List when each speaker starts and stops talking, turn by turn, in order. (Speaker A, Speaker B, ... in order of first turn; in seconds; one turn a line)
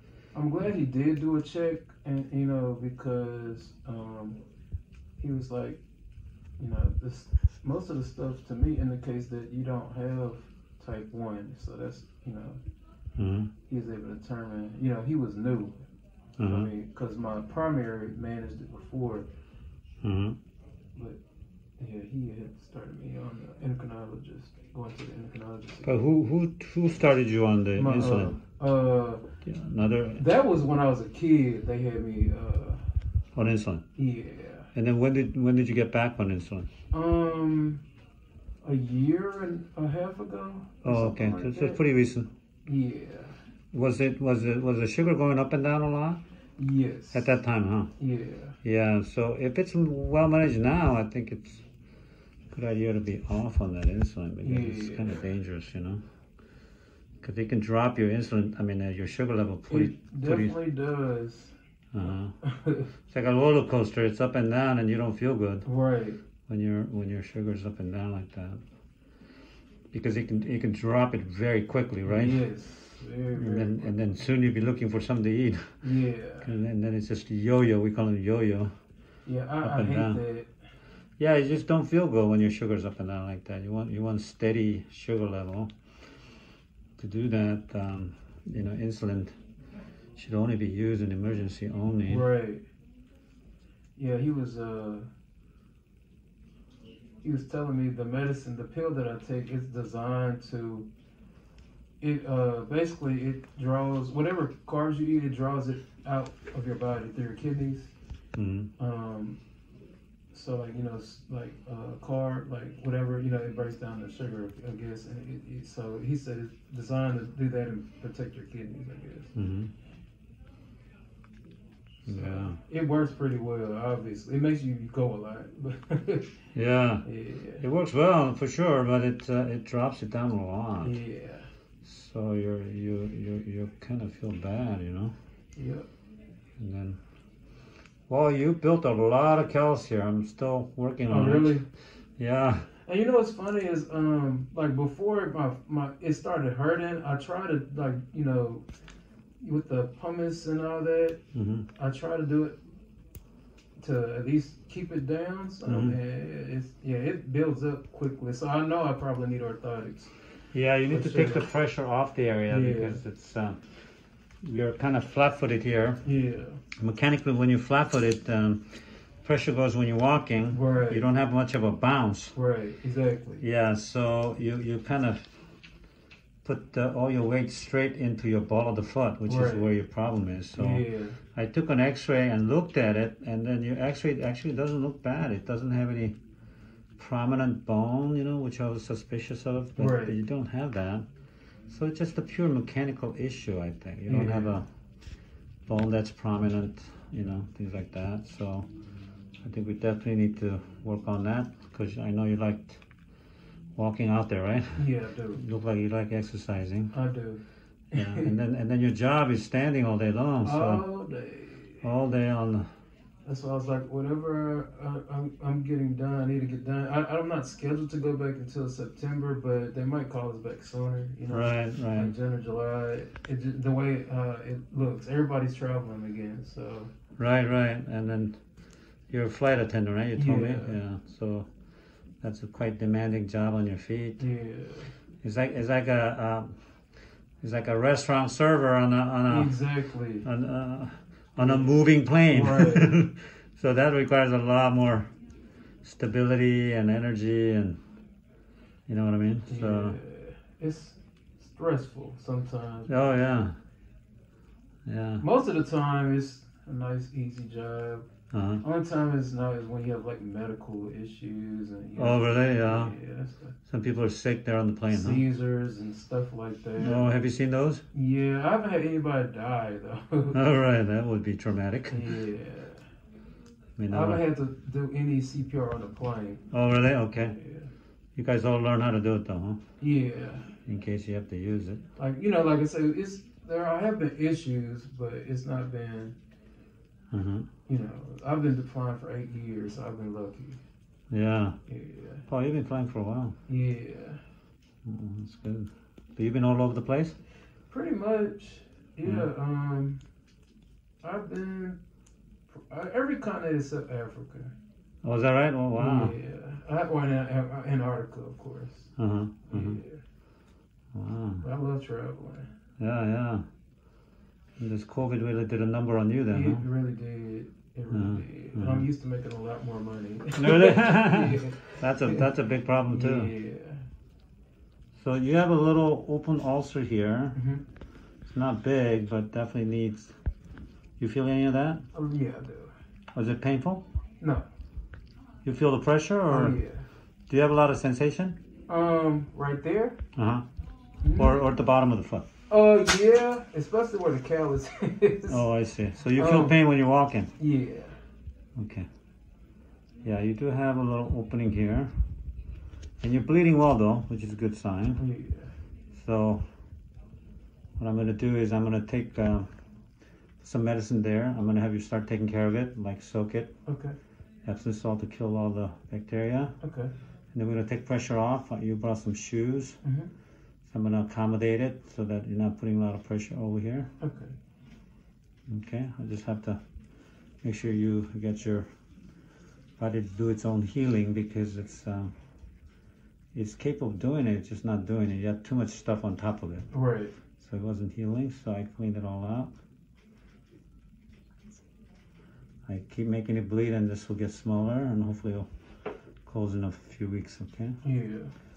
Speaker A: 0.3-4.4
Speaker A: 5.2-5.8
Speaker A: 6.6-12.6
Speaker B: 13.2-13.5
Speaker A: 13.7-15.7
Speaker B: 16.4-16.7
Speaker A: 16.4-19.3
Speaker B: 20.0-20.4
Speaker A: 21.8-26.0
Speaker B: 25.8-28.4
Speaker A: 27.7-29.2
Speaker B: 29.4-30.2
Speaker A: 30.1-32.9
Speaker B: 33.3-33.8
Speaker A: 34.0-34.7
Speaker B: 34.7-36.7
Speaker A: 36.9-37.8
Speaker A: 38.6-41.8
Speaker B: 40.8-42.3
Speaker A: 42.6-43.4
Speaker B: 43.7-46.2
Speaker A: 46.6-47.3
Speaker B: 47.1-47.9
Speaker A: 48.0-48.6
Speaker B: 48.6-51.6
Speaker B: 52.5-56.0
Speaker A: 54.4-55.3
Speaker B: 57.2-60.5
Speaker A: 59.7-61.5
Speaker B: 61.9-62.3
Speaker A: 62.4-62.9
Speaker B: 63.1-65.7
Speaker A: 65.6-66.2
Speaker B: 66.5-68.6
Speaker B: 69.9-72.4
Speaker A: 72.1-74.1
Speaker B: 73.3-75.8
Speaker A: 75.8-76.5
Speaker B: 76.4-78.7
Speaker A: 79.2-80.5
Speaker B: 79.6-80.2
Speaker B: 81.2-85.7
Speaker B: 87.0-89.3
Speaker B: 90.2-92.3
Speaker A: 92.0-92.6
Speaker A: 94.0-95.1
Speaker A: 97.2-100.9
Speaker A: 102.0-107.9
Speaker B: 108.3-108.7
Speaker A: 108.8-109.4
Speaker A: 110.3-119.3
Speaker B: 119.3-119.7
Speaker B: 122.0-122.6
Speaker A: 122.0-126.4
Speaker B: 126.5-127.0
Speaker A: 127.0-127.6
Speaker B: 127.6-131.0
Speaker A: 130.8-131.5
Speaker B: 131.8-135.1
Speaker A: 135.6-135.9
Speaker B: 136.6-137.0
Speaker B: 138.1-141.6
Speaker A: 141.1-141.7
Speaker B: 142.2-142.7
Speaker A: 142.8-148.6
Speaker A: 149.4-151.2
Speaker B: 151.3-151.7
Speaker A: 151.7-152.6
Speaker A: 153.8-160.1
Speaker B: 155.7-155.9
Speaker B: 160.5-163.6
Speaker A: 160.9-161.4
Speaker A: 162.5-163.0
Speaker B: 164.4-166.0
Speaker A: 166.0-166.6
Speaker B: 166.8-172.3
Speaker A: 170.5-171.1
Speaker A: 172.3-173.4
Speaker B: 173.4-175.2
Speaker B: 176.4-186.2
Speaker A: 179.2-179.7
Speaker A: 180.5-181.2
Speaker B: 187.0-191.0
Speaker A: 189.8-190.2
Speaker B: 191.7-194.6
Speaker A: 194.1-194.6
Speaker B: 195.7-198.7
Speaker B: 199.4-202.8
Speaker B: 203.7-206.9
Speaker A: 204.8-205.4
Speaker A: 206.9-207.4
Speaker A: 207.9-208.3
Speaker B: 207.9-210.8
Speaker A: 210.4-211.8
Speaker B: 211.8-212.7
Speaker A: 213.2-226.9
Speaker B: 221.3-222.1
Speaker B: 227.2-228.4
Speaker B: 229.1-231.5
Speaker A: 230.1-230.7
Speaker B: 232.2-234.2
Speaker A: 234.2-234.9
Speaker B: 235.2-236.6
Speaker B: 237.4-239.5
Speaker A: 239.2-240.2
Speaker B: 240.2-245.1
Speaker A: 241.4-242.9
Speaker B: 245.8-247.8
Speaker B: 248.9-250.0
Speaker A: 249.5-253.1
Speaker B: 252.9-253.6
Speaker B: 254.8-255.2
Speaker A: 255.2-258.1
Speaker B: 258.3-258.6
Speaker A: 258.6-263.5
Speaker B: 262.0-262.9
Speaker B: 263.7-265.2
Speaker A: 264.9-267.2
Speaker B: 266.8-267.8
Speaker A: 267.9-270.4
Speaker B: 270.3-272.2
Speaker A: 271.9-272.8
Speaker B: 273.8-274.2
Speaker A: 273.9-276.4
Speaker B: 276.5-277.4
Speaker A: 277.1-277.7
Speaker B: 278.1-279.6
Speaker A: 279.8-280.5
Speaker B: 280.6-281.8
Speaker A: 282.0-286.1
Speaker B: 287.1-287.5
Speaker A: 287.7-290.6
Speaker B: 291.1-291.6
Speaker A: 291.7-292.2
Speaker B: 292.3-293.3
Speaker A: 293.5-294.2
Speaker B: 294.8-297.1
Speaker A: 297.7-300.0
Speaker A: 301.0-301.8
Speaker A: 302.5-304.5
Speaker B: 305.0-306.1
Speaker A: 305.8-308.9
Speaker B: 309.0-309.8
Speaker A: 309.5-310.0
Speaker B: 310.9-311.4
Speaker A: 311.4-312.5
Speaker B: 312.8-313.4
Speaker B: 314.6-316.6
Speaker A: 316.3-322.2
Speaker B: 317.9-318.9
Speaker B: 320.4-323.3
Speaker A: 322.9-323.8
Speaker B: 325.0-327.4
Speaker A: 327.4-327.6
Speaker B: 328.2-330.1
Speaker B: 331.0-331.8
Speaker A: 331.9-332.7
Speaker B: 333.1-333.8
Speaker A: 334.2-334.4
Speaker B: 335.4-336.6
Speaker A: 336.3-336.8
Speaker B: 337.3-338.4
Speaker A: 338.7-340.0
Speaker B: 340.1-340.4
Speaker A: 341.0-341.5
Speaker B: 341.1-342.2
Speaker A: 342.5-345.4
Speaker B: 345.3-347.3
Speaker A: 346.1-346.6
Speaker A: 347.4-348.0
Speaker B: 348.6-348.9
Speaker B: 350.0-351.9
Speaker B: 353.0-355.0
Speaker A: 355.0-355.5
Speaker B: 355.9-356.4
Speaker B: 357.8-359.5
Speaker B: 360.4-363.5
Speaker A: 363.6-363.9
Speaker B: 364.4-366.6
Speaker A: 366.6-366.9
Speaker B: 367.3-369.8
Speaker A: 369.8-370.1
Speaker B: 370.6-373.9
Speaker A: 374.0-374.3
Speaker B: 375.5-376.6
Speaker B: 377.4-378.7
Speaker B: 379.8-382.1
Speaker B: 383.3-386.7
Speaker A: 386.7-387.1
Speaker B: 387.4-389.5
Speaker B: 392.7-395.5
Speaker B: 396.2-397.8
Speaker A: 397.8-398.3